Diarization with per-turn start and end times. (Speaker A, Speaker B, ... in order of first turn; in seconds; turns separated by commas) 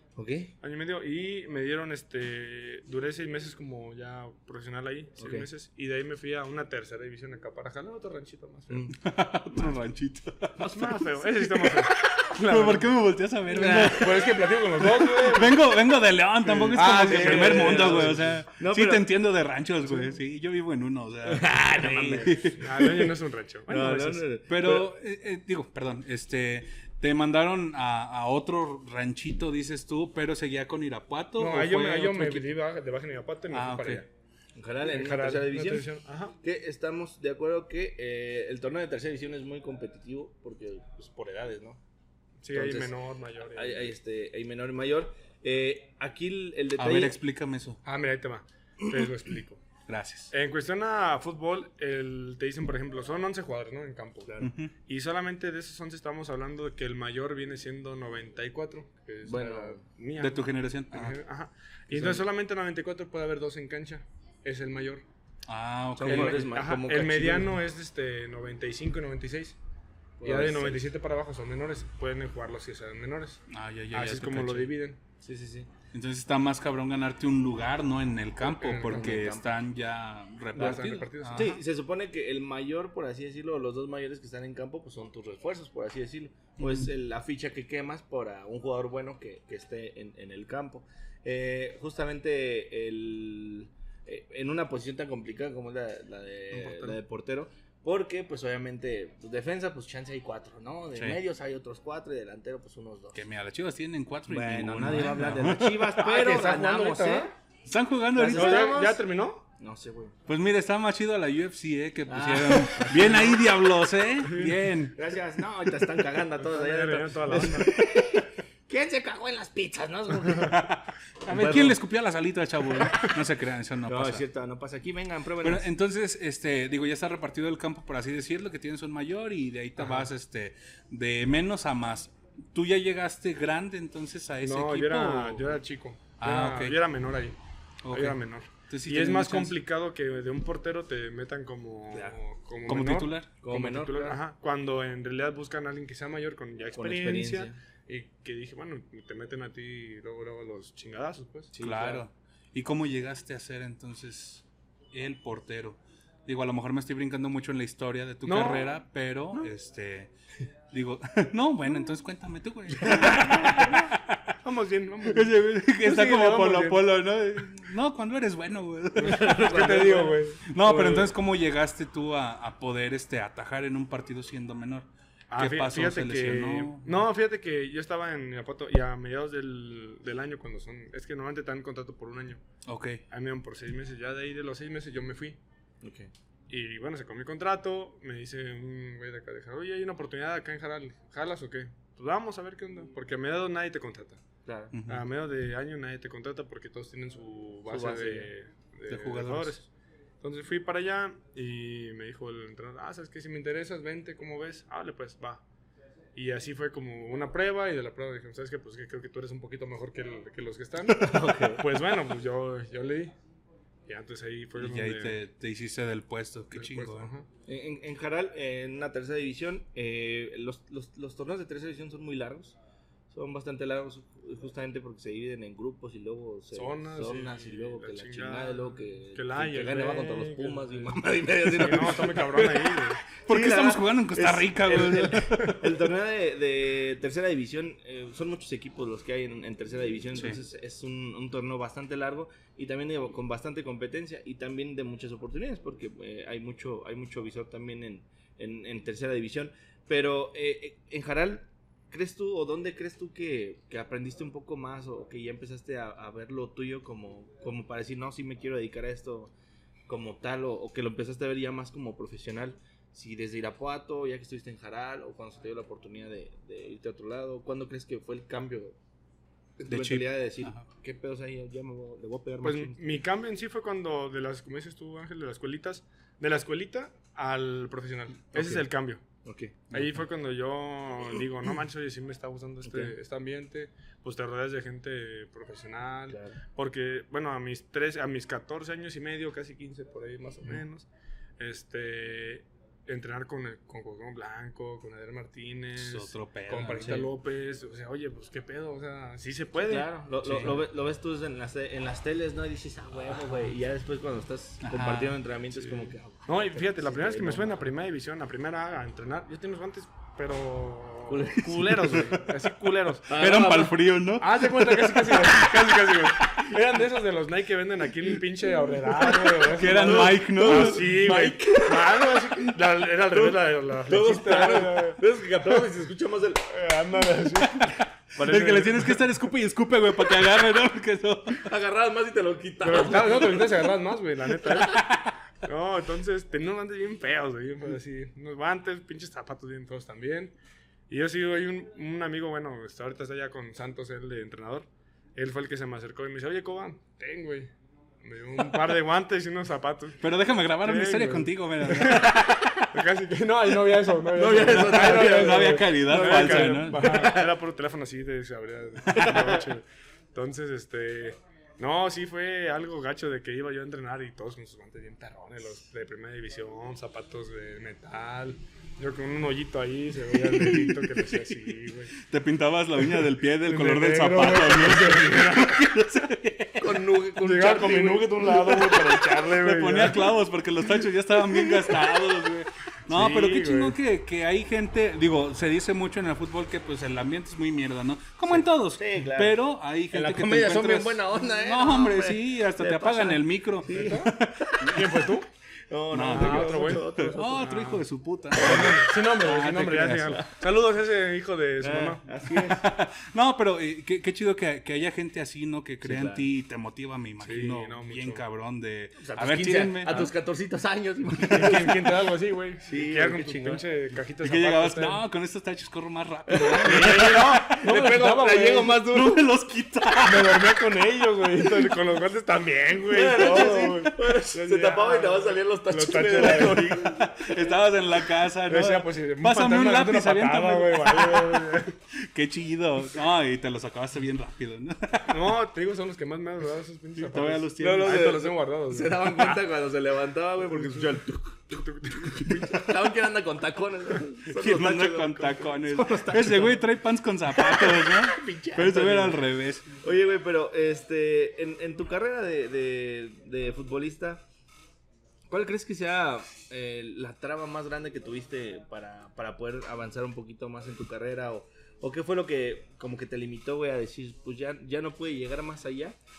Speaker A: 0.1-0.5, Speaker B: 0.6-8.9, Speaker A: 5.2-5.5, Speaker A: 8.7-8.9, Speaker C: 8.9-10.7, Speaker B: 10.6-12.9, Speaker C: 12.2-22.8, Speaker A: 13.5-14.4, Speaker B: 13.5-15.6, Speaker A: 16.5-19.1, Speaker B: 16.6-18.3, Speaker A: 21.2-23.1, Speaker B: 22.6-24.2, Speaker A: 23.7-24.9, Speaker C: 24.5-32.5, Speaker B: 31.4-34.1, Speaker C: 33.5-34.0, Speaker A: 34.5-35.9, Speaker B: 34.8-36.4, Speaker A: 36.4-41.8, Speaker B: 42.4-43.9, Speaker A: 42.5-42.9, Speaker A: 43.5-47.2, Speaker C: 46.8-47.8, Speaker B: 47.8-49.6, Speaker A: 48.8-49.1, Speaker C: 49.9-50.3, Speaker B: 50.3-65.0, Speaker A: 54.3-54.5, Speaker C: 54.4-54.7, Speaker A: 59.2-59.8, Speaker C: 60.1-61.2, Speaker A: 61.9-62.2, Speaker C: 65.5-66.5, Speaker A: 66.0-67.5, Speaker B: 66.1-69.6, Speaker A: 70.2-70.9, Speaker B: 70.2-73.4, Speaker C: 73.5-74.7, Speaker B: 73.9-75.0, Speaker A: 75.2-75.7, Speaker C: 75.9-81.5, Speaker B: 78.5-79.2, Speaker A: 78.8-79.5, Speaker B: 80.5-81.6, Speaker A: 81.3-103.2, Speaker B: 96.5-97.0, Speaker C: 103.1-106.0, Speaker A: 104.3-107.3, Speaker B: 106.0-107.3, Speaker C: 107.7-108.8, Speaker A: 108.1-109.0, Speaker B: 108.3-109.4, Speaker A: 109.6-110.1, Speaker C: 110.3-115.0, Speaker A: 112.1-113.3, Speaker B: 114.3-114.5, Speaker A: 114.9-120.7, Speaker B: 116.4-117.7, Speaker C: 120.3-124.2, Speaker A: 121.3-121.8, Speaker A: 123.9-125.7, Speaker C: 125.4-135.6, Speaker B: 134.4-137.4, Speaker C: 136.2-136.8, Speaker C: 137.8-139.6, Speaker B: 137.9-151.5, Speaker A: 141.9-142.2, Speaker C: 142.7-143.3, Speaker A: 143.4-144.2, Speaker A: 146.7-147.6, Speaker A: 151.5-152.0, Speaker C: 151.6-160.1, Speaker B: 158.2-158.8, Speaker C: 160.7-164.2, Speaker B: 162.9-163.7, Speaker B: 164.4-166.8, Speaker C: 165.1-169.9, Speaker B: 169.0-171.1, Speaker A: 169.1-170.2, Speaker C: 170.4-176.9, Speaker B: 175.3-182.4, Speaker C: 182.7-183.0, Speaker B: 183.1-185.4, Speaker A: 185.8-186.1, Speaker B: 186.5-194.2, Speaker A: 194.4-194.7, Speaker C: 194.7-195.1, Speaker B: 194.9-199.7, Speaker A: 197.7-198.3, Speaker C: 198.9-199.6, Speaker B: 200.2-205.4, Speaker B: 206.1-213.1, Speaker A: 211.0-211.6, Speaker B: 213.9-215.2, Speaker C: 214.6-217.1, Speaker B: 216.5-217.3, Speaker A: 217.5-222.6, Speaker A: 223.1-259.3, Speaker B: 226.5-230.9, Speaker B: 231.5-233.0, Speaker C: 233.3-235.6, Speaker A: 259.9-268.8, Speaker A: 269.6-273.0, Speaker C: 269.7-270.7, Speaker B: 272.4-279.0, Speaker A: 278.3-278.7, Speaker A: 279.2-279.7, Speaker B: 279.7-290.9, Speaker A: 282.6-282.9, Speaker A: 286.1-286.4, Speaker B: 291.4-299.9, Speaker C: 295.8-297.1, Speaker A: 296.8-297.1, Speaker A: 299.6-307.6, Speaker C: 300.2-300.6, Speaker C: 304.6-305.2, Speaker B: 305.5-313.1, Speaker A: 311.1-312.2, Speaker A: 313.1-313.8, Speaker C: 313.1-315.1, Speaker B: 314.2-325.6, Speaker A: 315.1-315.7, Speaker A: 319.1-322.6, Speaker C: 319.5-320.8, Speaker A: 323.1-326.5, Speaker B: 326.5-329.0, Speaker C: 327.6-331.5, Speaker A: 331.3-333.7, Speaker B: 332.6-340.3, Speaker C: 334.7-335.1, Speaker B: 340.9-350.0, Speaker C: 350.0-352.7, Speaker B: 350.6-371.9, Speaker A: 354.1-357.3, Speaker C: 354.6-356.9, Speaker A: 358.9-359.4, Speaker C: 370.2-376.8, Speaker B: 373.4-375.7, Speaker A: 376.6-378.9, Speaker B: 377.2-380.1, Speaker C: 379.1-395.0, Speaker B: 382.9-383.8, Speaker A: 388.7-389.4, Speaker A: 389.9-395.0, Speaker B: 393.7-394.1, Speaker B: 394.6-395.3, Speaker A: 395.7-397.6, Speaker C: 395.9-400.2, Speaker B: 396.1-402.0, Speaker A: 398.4-398.7, Speaker A: 401.6-402.7, Speaker C: 402.3-410.1, Speaker A: 405.8-406.3, Speaker B: 407.2-408.2, Speaker A: 409.0-411.9, Speaker B: 411.3-415.0, Speaker C: 411.3-411.6, Speaker A: 412.6-413.6, Speaker C: 414.2-417.6, Speaker A: 416.3-419.3, Speaker B: 416.6-418.8, Speaker C: 418.8-420.5, Speaker B: 420.0-426.8, Speaker A: 422.9-427.1, Speaker C: 426.2-435.3, Speaker B: 428.5-431.7, Speaker B: 435.1-439.4, Speaker C: 437.0-438.1, Speaker A: 437.6-446.6, Speaker B: 440.5-442.6, Speaker C: 444.3-449.7, Speaker A: 447.3-454.2, Speaker A: 455.3-466.0